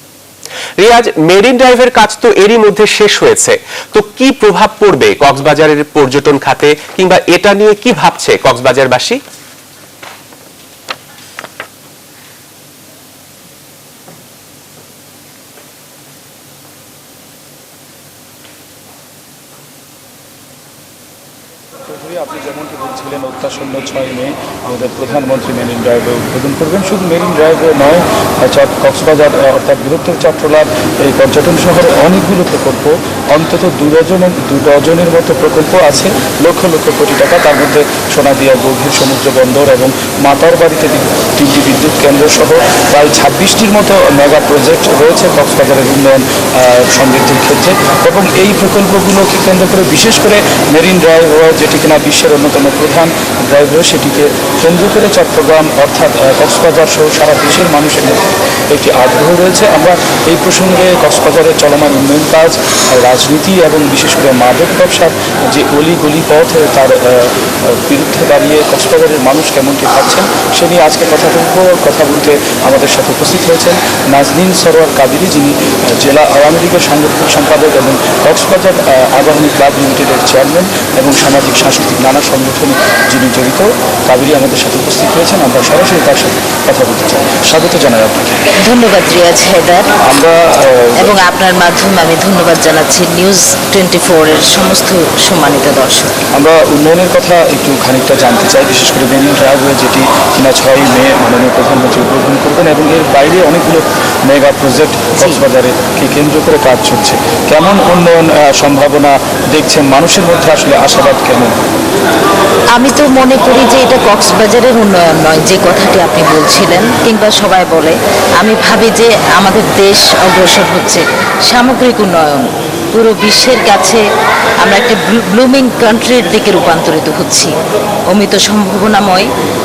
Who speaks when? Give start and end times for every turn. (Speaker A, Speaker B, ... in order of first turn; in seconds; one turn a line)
Speaker A: 0.8-9.2
Speaker B: 21.9-88.4
Speaker C: 88.6-89.9
Speaker B: 90.0-91.2
Speaker C: 91.0-96.2
Speaker B: 96.3-111.6
Speaker C: 112.7-124.0
Speaker C: 124.6-127.5
Speaker C: 128.1-129.3